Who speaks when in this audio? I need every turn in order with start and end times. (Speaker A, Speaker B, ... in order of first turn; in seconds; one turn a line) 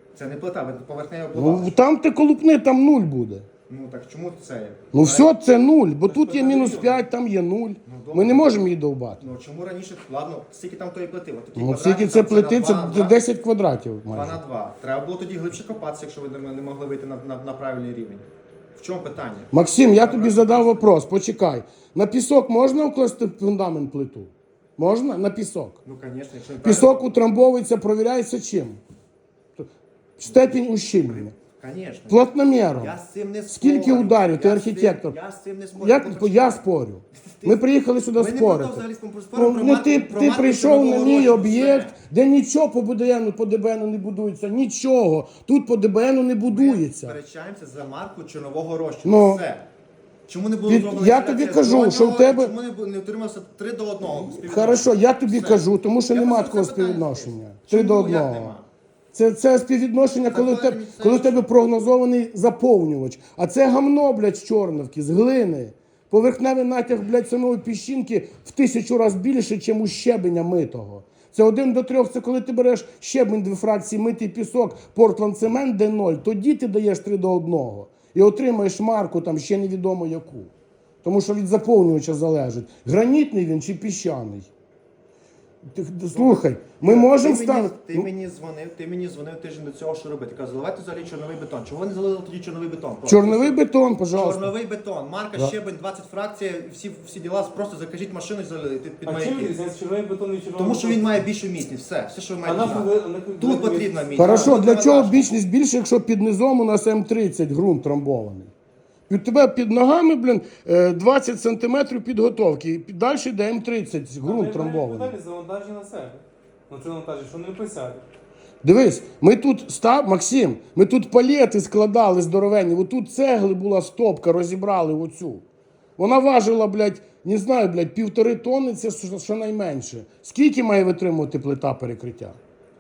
Speaker A: 0.1-1.7
Speaker B: 1.3-3.5
Speaker A: 3.7-5.3
Speaker B: 4.9-9.2
Speaker C: 6.1-7.0
Speaker A: 7.8-8.7
Speaker A: 9.2-13.2
Speaker B: 11.6-14.4
Speaker A: 14.1-21.0
Speaker B: 19.5-25.8
Speaker A: 25.9-27.1
Speaker B: 26.6-28.8
Speaker B: 30.2-31.3
Speaker A: 30.2-36.6
Speaker B: 32.1-33.0
Speaker B: 33.5-35.1
Speaker B: 35.8-38.8
Speaker A: 37.1-37.6
Speaker A: 38.1-42.0
Speaker B: 39.3-47.2
Speaker A: 46.5-49.6
Speaker B: 49.0-49.4
Speaker A: 50.3-58.6
Speaker B: 50.7-52.5
Speaker B: 54.2-58.6
Speaker B: 59.1-80.5
Speaker A: 60.3-61.5
Speaker B: 81.0-84.5
Speaker B: 85.7-88.1
Speaker A: 86.1-93.6
Speaker B: 93.1-94.5
Speaker A: 94.1-99.5
Speaker C: 99.0-101.0
Speaker A: 100.6-105.3
Speaker C: 102.4-104.5
Speaker B: 104.2-108.5
Speaker B: 109.1-115.2
Speaker C: 114.2-118.0
Speaker B: 118.6-125.4
Speaker B: 126.0-132.4